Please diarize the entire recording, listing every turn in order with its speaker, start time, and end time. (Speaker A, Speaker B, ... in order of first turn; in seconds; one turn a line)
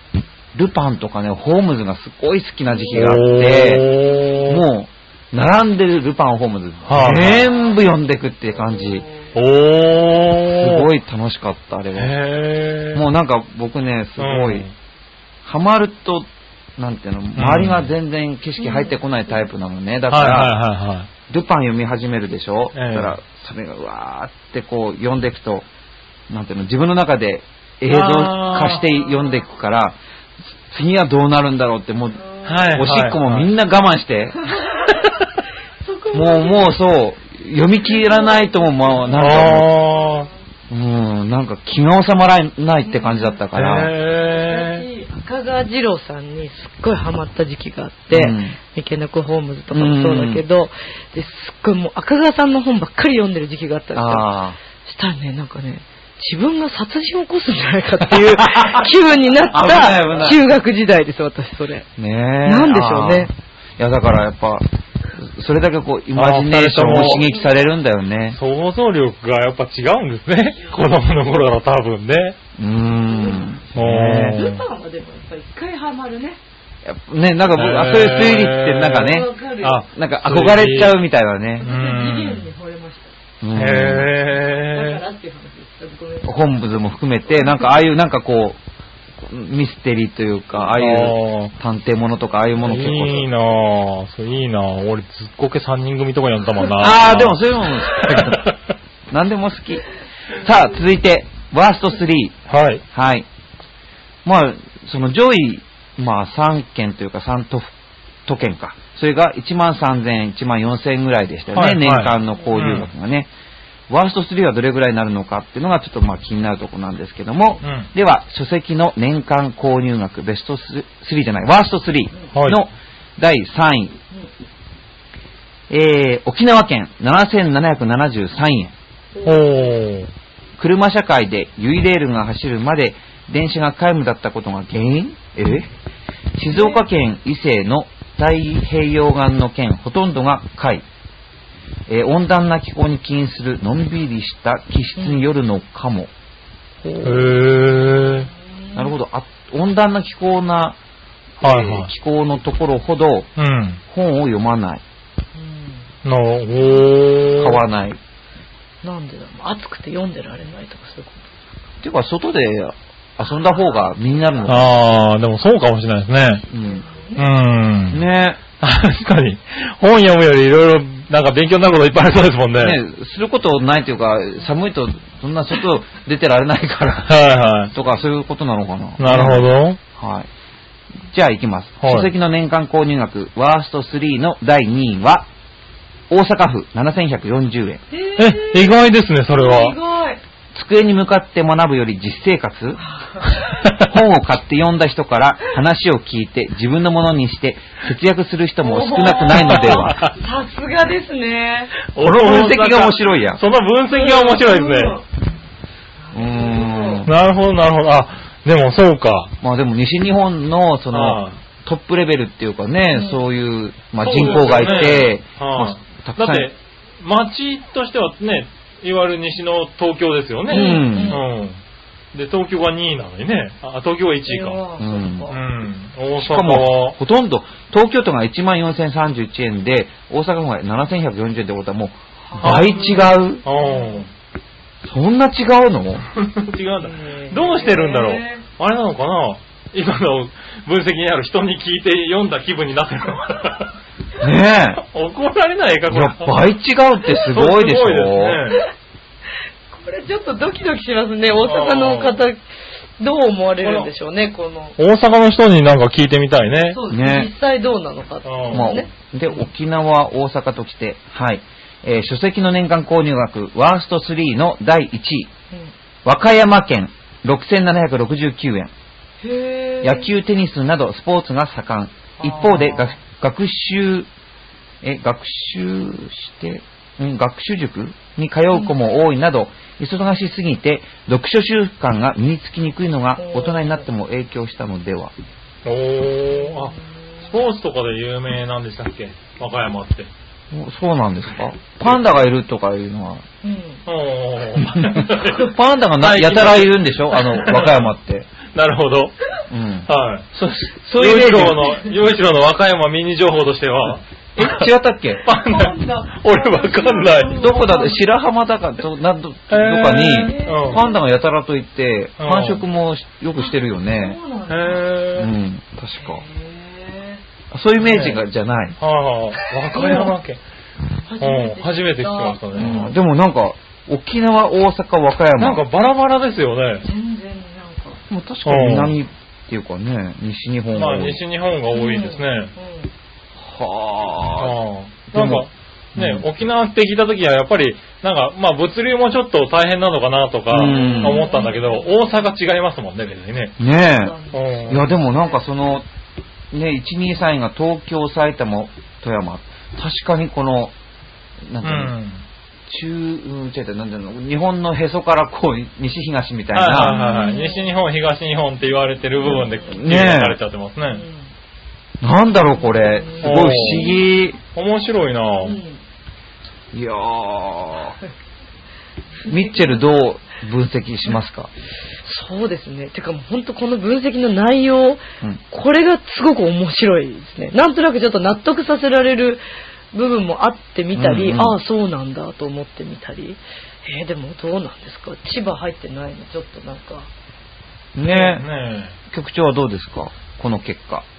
Speaker A: 0.6-3.9
Speaker B: 2.9-4.6
Speaker A: 4.5-9.1
Speaker B: 6.9-7.5
Speaker C: 8.8-9.3
Speaker B: 9.3-10.9
Speaker A: 10.5-12.2
Speaker B: 12.0-13.0
Speaker A: 12.9-14.7
Speaker B: 14.2-14.7
Speaker A: 15.4-20.6
Speaker B: 17.4-17.9
Speaker C: 18.6-18.9
Speaker B: 20.1-21.1
Speaker A: 21.3-25.7
Speaker B: 22.7-23.1
Speaker A: 26.3-30.0
Speaker B: 27.9-28.9
Speaker A: 30.7-34.5
Speaker C: 32.2-32.8
Speaker B: 32.5-33.5
Speaker C: 34.4-35.0
Speaker C: 35.8-36.7
Speaker A: 36.1-39.8
Speaker C: 37.8-39.3
Speaker B: 39.1-40.3
Speaker C: 39.9-40.3
Speaker A: 40.7-43.9
Speaker C: 42.8-43.4
Speaker B: 43.5-44.9
Speaker C: 44.1-54.3
Speaker A: 48.1-48.6
Speaker A: 49.7-50.4
Speaker A: 54.0-54.6
Speaker C: 54.9-61.9
Speaker A: 58.2-58.9
Speaker A: 59.4-60.4
Speaker A: 62.0-64.7
Speaker C: 62.5-63.3
Speaker A: 65.2-68.4
Speaker B: 66.2-67.3
Speaker C: 66.9-67.5
Speaker B: 68.3-72.4
Speaker C: 70.6-71.0
Speaker A: 72.6-74.6
Speaker C: 73.0-73.7
Speaker B: 73.8-74.6
Speaker C: 74.3-76.4
Speaker A: 76.8-79.3
Speaker B: 77.5-81.0
Speaker C: 78.9-79.9
Speaker A: 79.9-81.7
Speaker B: 81.6-82.5
Speaker C: 81.6-83.1
Speaker A: 83.4-84.1
Speaker B: 83.5-85.0
Speaker C: 84.3-86.3
Speaker A: 86.2-88.6
Speaker A: 89.2-93.3
Speaker B: 90.8-91.5
Speaker B: 92.6-98.5
Speaker A: 96.8-98.5
Speaker A: 99.1-99.9
Speaker A: 100.4-102.3
Speaker B: 102.5-102.8
Speaker A: 102.9-103.3
Speaker A: 104.2-107.7
Speaker A: 108.3-113.3
Speaker B: 111.5-112.9
Speaker A: 113.9-124.0
Speaker B: 117.6-117.9
Speaker B: 122.3-122.6
Speaker A: 125.7-128.7
Speaker C: 129.1-129.8
Speaker B: 129.2-130.1
Speaker A: 130.6-135.7
Speaker A: 136.4-140.8
Speaker C: 136.5-136.8
Speaker A: 141.9-146.1
Speaker C: 145.0-145.2
Speaker A: 146.8-147.4
Speaker B: 147.0-148.3
Speaker C: 147.9-148.9
Speaker A: 148.8-150.8
Speaker B: 151.4-151.9
Speaker A: 151.4-153.3
Speaker B: 153.4-153.8
Speaker A: 153.9-154.8
Speaker C: 155.4-155.9
Speaker B: 156.0-157.6
Speaker A: 157.4-158.0
Speaker C: 158.8-161.3
Speaker A: 161.8-164.7
Speaker B: 164.5-166.4
Speaker A: 166.5-166.8
Speaker C: 166.5-167.3
Speaker B: 167.2-168.0
Speaker A: 167.9-168.4
Speaker B: 168.6-172.8
Speaker A: 172.6-177.2
Speaker B: 177.1-177.7
Speaker A: 177.7-180.3
Speaker B: 179.0-179.8
Speaker A: 181.1-185.3
Speaker B: 181.8-182.1
Speaker A: 186.1-187.8
Speaker C: 187.9-190.2
Speaker B: 188.2-189.8
Speaker A: 190.5-192.8
Speaker C: 192.8-193.4
Speaker A: 193.8-200.0
Speaker C: 198.6-201.7
Speaker B: 199.3-200.2
Speaker B: 201.9-205.0
Speaker A: 202.0-203.4
Speaker C: 203.9-205.1
Speaker C: 206.1-207.1
Speaker A: 206.1-207.1
Speaker B: 207.1-209.3
Speaker A: 209.4-216.5
Speaker B: 210.9-211.4
Speaker C: 212.9-213.2
Speaker B: 214.0-221.6
Speaker C: 214.2-215.0
Speaker C: 220.5-221.2
Speaker A: 220.5-221.2
Speaker B: 222.1-224.6
Speaker C: 224.3-225.4
Speaker A: 224.8-225.3
Speaker B: 225.3-227.0
Speaker A: 226.2-233.4
Speaker C: 232.3-234.1
Speaker B: 232.4-234.1
Speaker A: 234.8-236.1
Speaker B: 236.2-243.7
Speaker C: 236.8-238.4
Speaker A: 244.2-244.8
Speaker B: 244.8-246.5
Speaker A: 245.9-248.4
Speaker B: 247.2-248.6
Speaker C: 249.7-252.4
Speaker B: 251.4-252.2
Speaker C: 253.0-254.8
Speaker B: 253.6-253.9
Speaker B: 254.8-256.8
Speaker C: 256.7-259.5
Speaker A: 256.9-257.3
Speaker B: 258.2-258.7
Speaker A: 258.5-265.3
Speaker A: 266.1-268.7
Speaker C: 269.2-270.1
Speaker A: 269.8-274.1
Speaker C: 272.2-273.0
Speaker A: 274.8-285.1
Speaker C: 283.2-283.8
Speaker B: 285.6-290.1
Speaker C: 286.4-287.3
Speaker A: 290.5-293.2
Speaker B: 291.8-292.2
Speaker C: 293.4-293.8
Speaker B: 293.9-297.9
Speaker A: 294.7-298.3
Speaker C: 295.2-295.5
Speaker B: 298.5-299.2
Speaker A: 299.5-299.9
Speaker B: 299.9-304.7
Speaker A: 300.8-301.7
Speaker A: 304.4-305.2
Speaker B: 305.2-307.6
Speaker C: 305.3-308.0
Speaker A: 307.4-314.2
Speaker B: 309.5-310.9
Speaker C: 310.1-311.0
Speaker B: 312.2-312.6
Speaker C: 313.4-314.8
Speaker B: 314.5-315.3
Speaker A: 315.2-316.2
Speaker C: 316.0-317.2
Speaker A: 317.5-318.8
Speaker B: 317.8-318.2
Speaker B: 318.8-320.4
Speaker C: 319.7-320.1
Speaker C: 321.1-323.0
Speaker B: 321.2-322.8
Speaker A: 322.6-325.6
Speaker B: 325.4-326.9
Speaker C: 326.8-328.0
Speaker A: 328.1-331.2
Speaker B: 328.5-329.0
Speaker B: 330.8-332.5
Speaker C: 331.7-332.9
Speaker A: 333.4-334.6
Speaker B: 334.4-343.6
Speaker A: 335.1-335.4
Speaker A: 336.0-336.3
Speaker A: 340.5-341.2
Speaker C: 340.6-342.2
Speaker A: 343.6-344.2
Speaker C: 344.0-345.4
Speaker B: 344.3-344.8
Speaker A: 344.7-345.9
Speaker A: 346.5-350.7
Speaker A: 351.5-351.9
Speaker B: 351.6-352.2
Speaker A: 352.7-357.0
Speaker B: 356.5-361.0
Speaker C: 356.8-357.7
Speaker C: 359.2-359.8
Speaker A: 359.7-360.4
Speaker C: 360.8-361.3
Speaker A: 362.0-364.4
Speaker C: 362.5-364.0
Speaker B: 363.2-363.9
Speaker B: 364.5-365.6
Speaker C: 365.4-365.8
Speaker A: 366.7-368.0
Speaker C: 369.3-369.9
Speaker A: 369.3-371.5
Speaker C: 372.0-387.1
Speaker A: 380.9-381.6
Speaker A: 387.9-388.4
Speaker B: 388.0-389.0
Speaker A: 389.1-391.1